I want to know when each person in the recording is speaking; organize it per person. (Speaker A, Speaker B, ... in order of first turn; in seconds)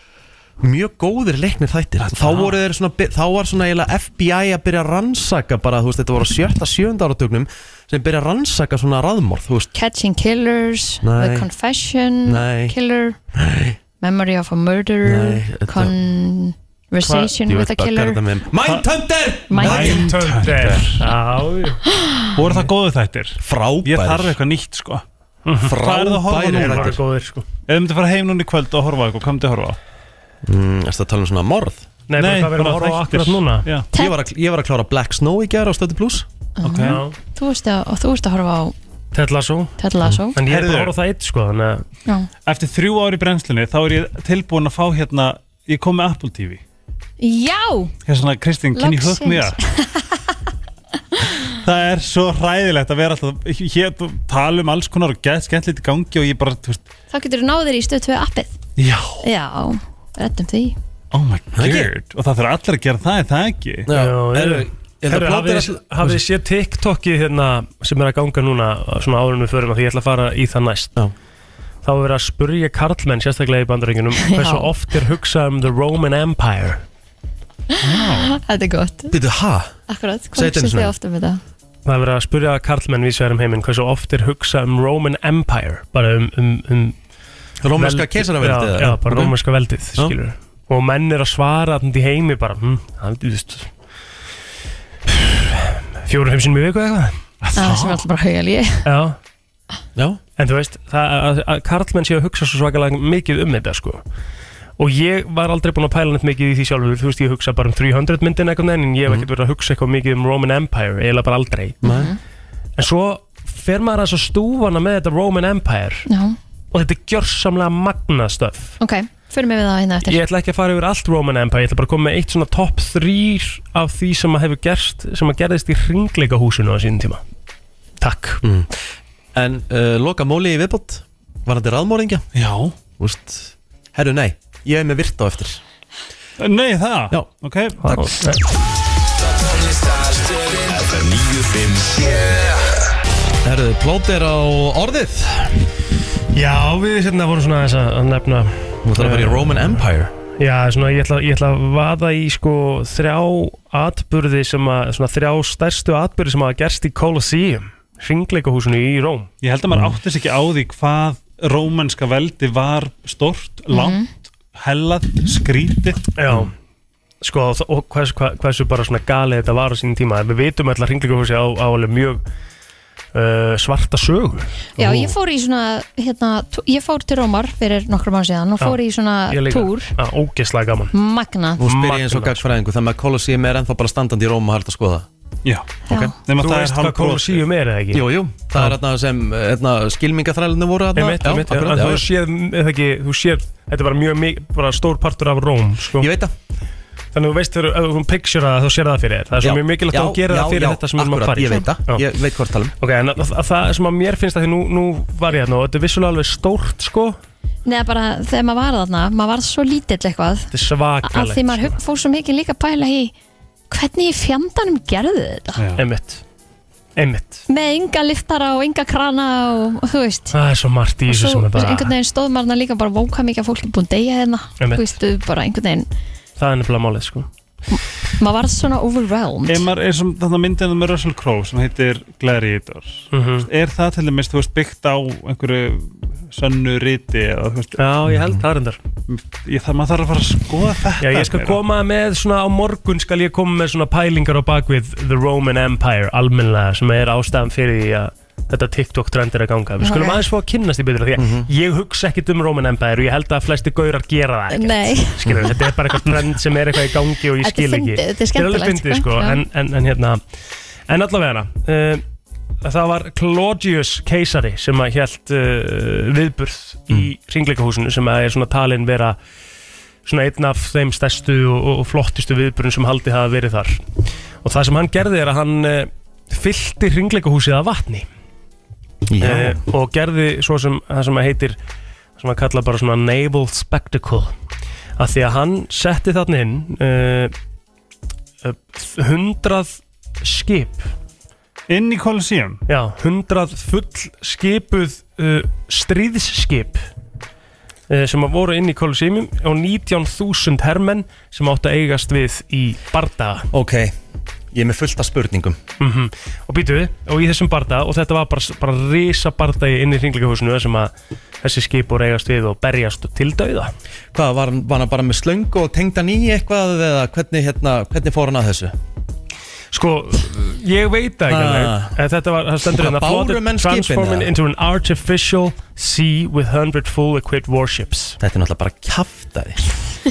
Speaker A: 0.6-9.7, 11.0-11.5, 12.2-12.7, 13.3-13.8, 15.0-15.9, 17.0-20.1, 23.4-24.4, 25.6-27.0, 30.4-31.9, 33.9-36.3, 61.5-61.9, 63.9-65.8, 79.1-79.8, 80.3-80.9, 87.6-89.4, 111.8-112.1, 128.4-128.8, 129.3-132.3, 133.0-135.6, 143.4-145.7, 148.8-150.1, 181.6-185.1, 187.9-192.1, 196.0-196.3, 199.4-202.7, 251.2-251.5, 279.1-279.6, 303.5-304.0, 304.5-305.6, 314.1-318.8, 321.3-322.0, 322.7-324.3, 328.2-329.7
Speaker B: 2.0-2.6, 19.6-21.1, 22.4-25.1, 25.6-27.0, 27.7-29.8, 32.2-33.9, 36.6-37.0, 40.4-40.9, 42.5-46.6, 48.1-49.6, 51.6-56.9, 58.8-59.3, 61.1-63.9, 77.8-78.3, 97.4-98.0, 132.3-132.8, 136.4-137.9, 159.4-166.0, 185.4-187.4, 215.6-215.8, 229.5-237.8, 239.1-241.6, 291.7-292.6
Speaker C: 9.7-13.2, 14.0-18.2, 19.5-20.0, 21.9-22.3, 33.9-34.2, 36.6-38.8, 39.8-40.4, 47.2-47.9, 48.7-50.2, 51.1-51.5, 57.1-58.6, 59.2-60.8, 74.3-74.7, 77.7-79.2, 79.9-81.4, 97.6-98.9, 111.8-112.2, 116.1-116.4, 118.8-120.2, 163.7-164.1, 174.8-179.9, 180.9-181.6, 185.9-186.1, 207.7-210.5, 211.0-213.1, 213.7-215.6, 217.5-220.3, 221.1-225.9, 227.7-229.7, 249.8-250.2, 254.5-255.6, 257.4-259.4
Speaker D: 19.7-21.8, 25.5-25.8, 26.5-27.5, 32.1-33.7, 36.8-37.2, 39.1-39.8, 40.4-41.9, 63.9-70.9, 71.8-76.8, 81.8-87.0, 87.8-93.7, 95.1-97.2, 98.8-99.2, 100.4-104.0, 104.8-111.8, 112.8-116.1, 116.7-118.8, 120.0-127.2, 128.0-128.4, 137.8-138.4, 146.3-149.8, 150.4-159.3, 166.2-166.5, 167.2-172.2, 173.1-175.1, 179.3-180.9, 181.6-182.5, 186.4-188.8, 190.9-196.1, 197.1-202.1, 202.8-207.2, 210.5-211.8, 215.8-216.2, 217.0-217.4, 220.3-221.9, 224.6-224.9, 226.4-227.3, 233.1-233.5, 237.8-238.8, 241.0-260.2, 260.9-262.0, 262.6-269.2, 270.1-273.8, 274.4-278.1, 279.2-281.6, 282.2-284.4, 285.0-287.3, 288.4-290.9, 292.7-296.9, 297.9-303.5, 305.8-310.9, 311.4-313.7, 319.7-328.2
Speaker E: 139.2-142.8